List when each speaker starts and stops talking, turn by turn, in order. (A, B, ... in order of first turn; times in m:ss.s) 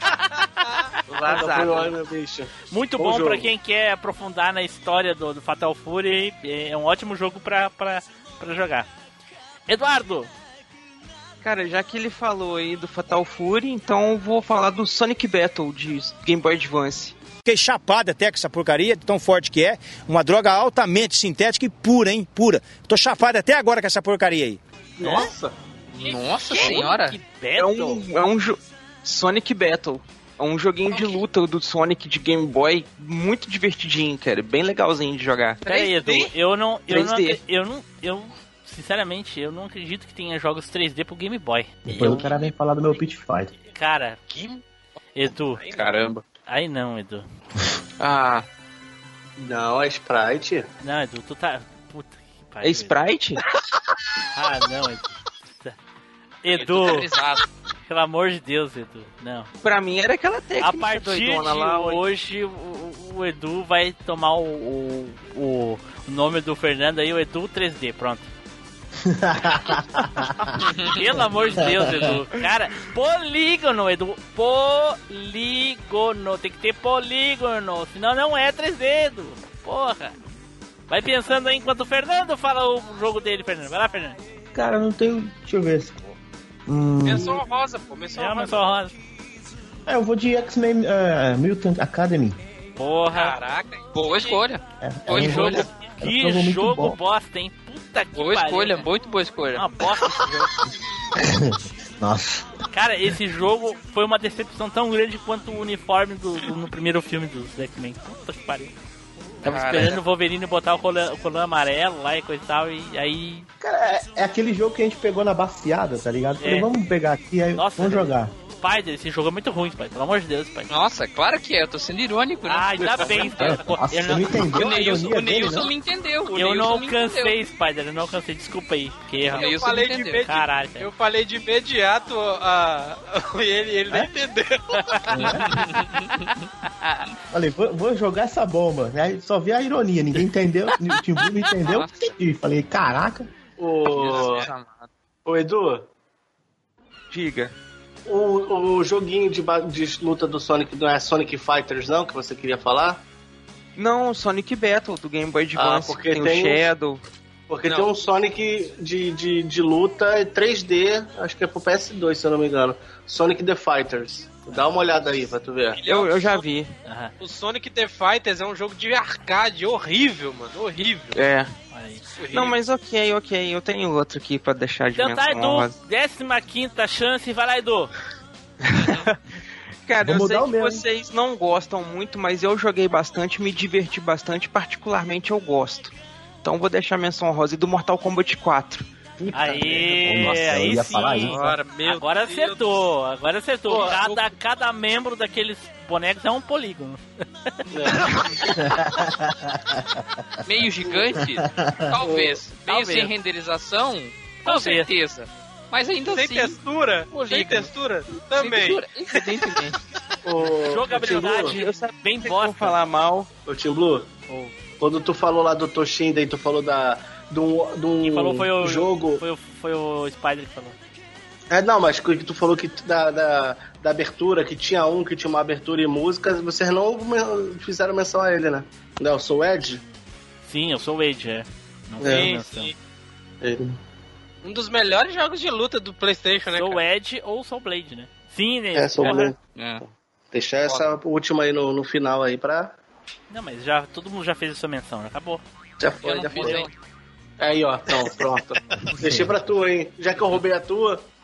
0:01.1-0:02.0 A
0:01.3-0:03.5 B
0:02.7-0:08.9 C
0:09.7-0:10.3 C
0:11.4-0:17.1 A
0:17.4-0:24.6 D
0:25.0-0:25.5 B
0:25.9-0:27.2 E
0:26.5-0:28.0 C
0:26.6-0:26.8 A
0:27.6-0:35.6 A
0:35.6-0:42.4 C
0:35.6-0:36.3 E
0:36.9-0:37.4 A
0:41.8-0:43.5 F
0:43.7-0:44.2 C
0:44.3-0:44.6 G
0:45.1-0:45.6 C
0:45.6-0:46.2 E
0:46.5-0:47.2 C
0:48.0-0:48.4 A
0:49.4-0:50.7 B
0:50.8-0:53.0 C
0:52.6-0:53.4 A
0:54.3-0:55.7 C
0:56.4-0:57.1 C
0:56.5-0:57.5 E
0:57.9-0:59.5 C
0:59.6-1:02.0 A
1:00.6-1:08.3 C
1:09.0-1:10.6 F
1:10.8-1:11.0 E
1:10.8-1:20.1 C
1:11.6-1:12.2 F
1:20.9-1:24.2 C
1:24.5-1:26.0 F
1:26.7-1:27.4 F
1:27.0-1:28.8 G
1:28.2-1:28.9 C
1:29.8-1:32.4 F
1:32.8-1:33.4 C
1:33.1-1:34.4 G
1:33.9-1:35.7 E
1:34.8-1:37.0 F
1:35.1-1:38.9 C
1:38.2-1:39.7 E
1:39.5-1:40.5 C
1:41.1-1:42.5 F
1:42.7-1:48.7 C
1:49.4-1:53.5 C
1:49.4-1:50.0 E
1:53.6-1:58.3 F
1:56.4-1:56.7 C
1:57.5-2:00.7 C
2:00.7-2:03.6 E
2:02.5-2:04.5 C
2:03.4-2:05.7 F
2:04.4-2:07.4 E
2:06.3-2:10.9 C
2:09.3-2:15.4 G
2:09.3-2:10.2 E
2:14.7-2:16.3 C
2:15.1-2:15.5 F
2:15.5-2:17.1 E
2:17.3-2:23.3 F
2:21.6-2:22.1 E
2:23.6-2:24.5 B
2:23.9-2:24.9 E
2:25.2-2:25.9 B
2:27.1-2:27.5 A
2:28.1-2:33.0 B
2:33.8-2:37.0 A
2:35.6-2:36.7 B
2:37.5-2:45.8 B
2:45.8-2:46.4 G
2:45.8-2:46.7 A
2:46.8-2:47.1 C
2:47.2-2:51.2 G
2:51.1-2:51.5 A
2:51.7-2:52.0 C
2:52.2-2:52.6 G
2:52.3-2:55.8 A
2:54.9-2:57.9 C
2:58.7-2:59.2 A
2:59.9-3:08.9 A
3:00.0-3:00.8 F
3:09.2-3:10.0 B
3:09.3-3:17.0 C
3:10.0-3:11.5 F
3:11.0-3:12.8 G
3:13.7-3:14.3 G
3:17.7-3:18.1 C
3:17.7-3:18.2 B
3:18.5-3:20.0 F
3:20.4-3:26.6 E
3:20.8-3:21.1 B
3:21.2-3:22.0 F
3:22.0-3:22.4 B
3:22.6-3:23.1 A
3:24.4-3:24.9 C
3:26.1-3:29.2 G
3:27.1-3:29.8 E
3:30.2-3:31.6 B
3:30.6-3:32.8 C
3:31.0-3:33.3 A
3:33.5-3:34.1 B
3:34.8-3:39.2 B
3:38.0-3:40.7 C
3:41.5-3:49.8 B
3:50.5-3:52.7 C
3:52.0-3:52.3 B
3:52.0-3:52.7 G
3:53.4-3:53.8 B
3:54.4-3:56.8 G
3:56.5-3:59.3 C
3:58.7-3:59.4 B
3:59.0-3:59.8 E
4:00.3-4:02.8 B
4:03.3-4:05.4 C
4:05.8-4:06.7 B
4:06.0-4:06.7 E
4:07.4-4:11.0 B